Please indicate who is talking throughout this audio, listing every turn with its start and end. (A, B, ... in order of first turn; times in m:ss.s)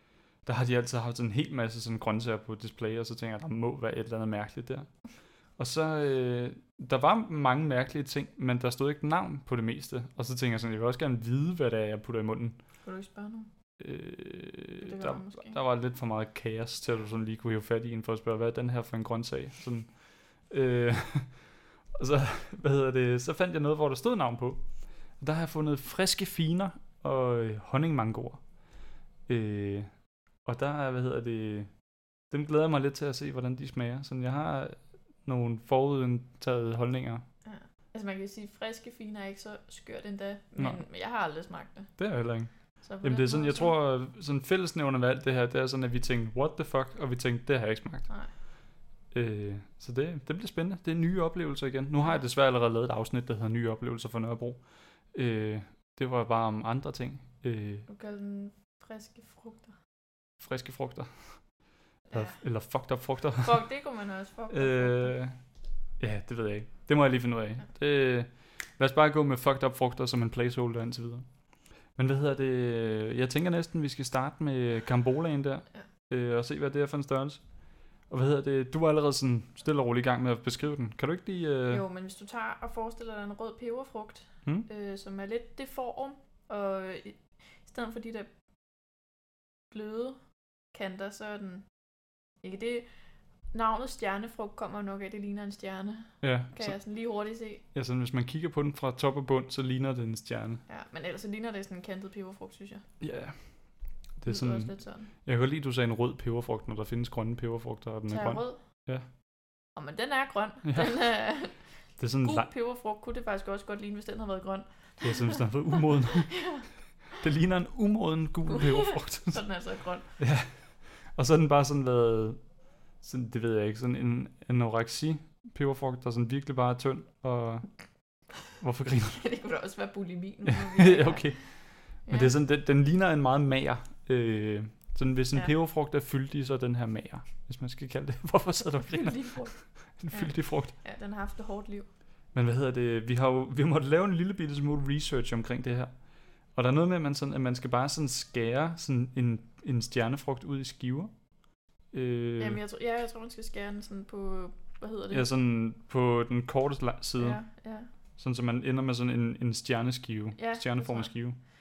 0:00.4-0:05.0 A
0:05.6-0:12.6 A
0:12.8-0:13.5 B
0:13.8-0:24.7 A
0:14.8-0:15.6 B
0:25.2-0:28.4 A
0:29.3-0:29.9 A
0:30.4-0:31.7 A
0:32.3-0:37.2 A
0:37.4-0:42.0 B
0:42.0-0:48.1 A
0:42.8-0:43.8 B
0:49.1-0:57.9 A
0:57.9-0:59.7 B
1:00.4-1:01.5 A
1:02.1-1:02.4 B
1:02.1-1:03.6 A
1:03.4-1:05.2 B
1:04.5-1:05.4 A
1:06.0-1:11.3 A
1:11.9-1:21.8 A
1:21.7-1:28.3 B
1:29.7-1:30.2 B
1:30.7-1:31.6 B
1:32.4-1:32.9 B
1:33.5-1:37.6 B
1:36.2-1:36.8 A
1:37.7-1:40.6 A
1:40.7-1:42.8 B
1:43.0-1:49.0 A
1:44.3-1:45.1 B
1:48.1-1:48.6 B
1:49.8-1:51.6 B
1:50.6-1:51.0 A
1:52.0-1:52.5 A
1:52.2-1:56.7 B
1:55.0-1:56.5 A
1:57.1-1:59.4 A
1:58.5-2:00.1 B
2:00.2-2:02.4 A
2:03.0-2:07.8 A
2:08.6-2:09.2 A
2:09.1-2:12.3 B
2:10.5-2:20.7 A
2:18.8-2:21.9 B
2:22.3-2:26.0 A
2:26.5-2:31.1 A
2:31.9-2:32.6 A
2:32.4-2:35.3 B
2:35.1-2:37.4 A
2:37.2-2:37.9 B
2:38.2-2:41.4 A
2:40.4-2:41.2 B